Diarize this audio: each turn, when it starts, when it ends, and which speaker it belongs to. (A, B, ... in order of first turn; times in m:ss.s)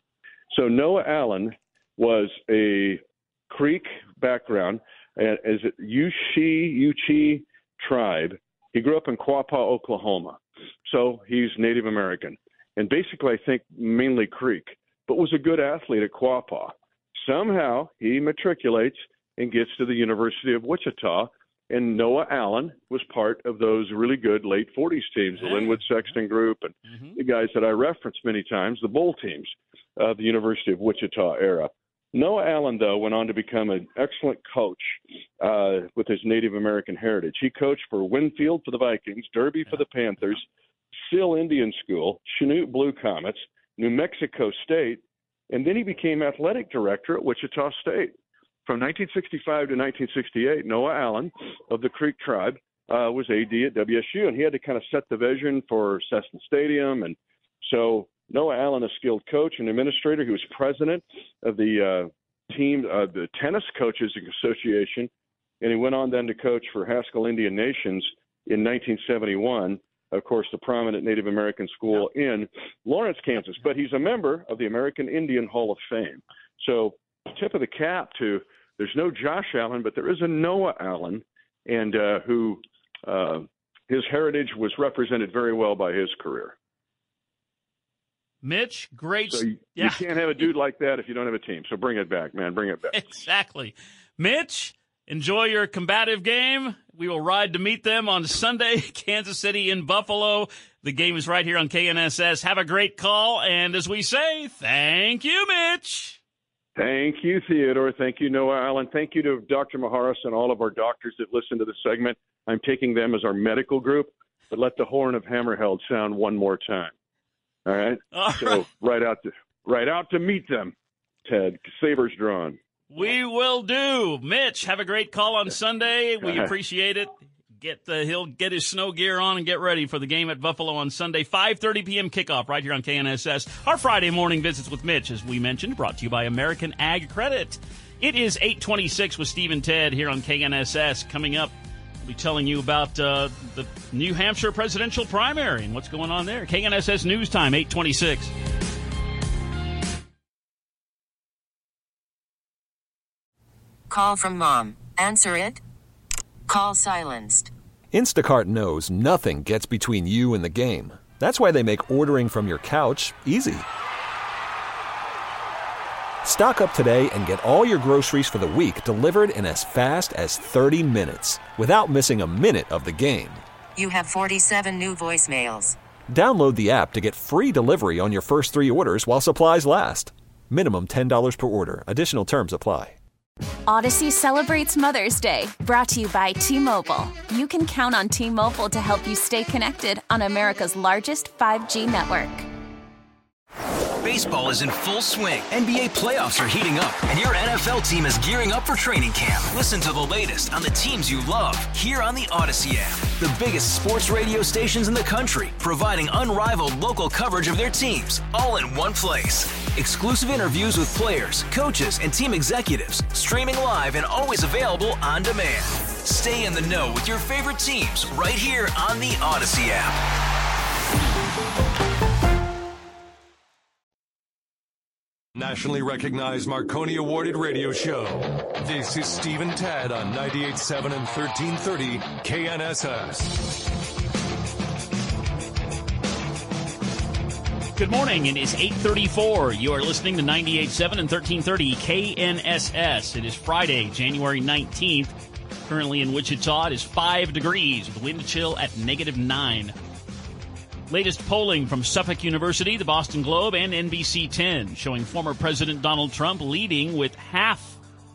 0:00.5-0:40.4 A
0:25.4-0:25.8 B
0:26.9-0:27.1 B
0:41.0-0:48.1 A
0:48.6-1:05.1 A
1:05.6-1:26.5 A
1:28.4-1:30.0 B
1:29.3-1:33.1 A
1:32.9-1:46.2 B
1:46.8-1:56.9 A
1:57.6-2:00.7 A
1:58.1-1:58.6 B
2:01.2-2:02.6 A
2:02.9-2:28.3 B
2:06.2-2:06.5 A
2:33.9-2:35.6 C
2:36.5-2:37.5 C
2:37.9-2:43.6 D
2:46.2-2:53.4 D
2:53.8-2:55.8 C
2:56.1-3:03.0 D
3:03.7-3:12.4 E
3:14.0-3:40.0 F
3:45.4-3:53.3 G
3:57.8-4:05.1 B
4:05.6-4:09.7 B
4:10.9-4:17.8 B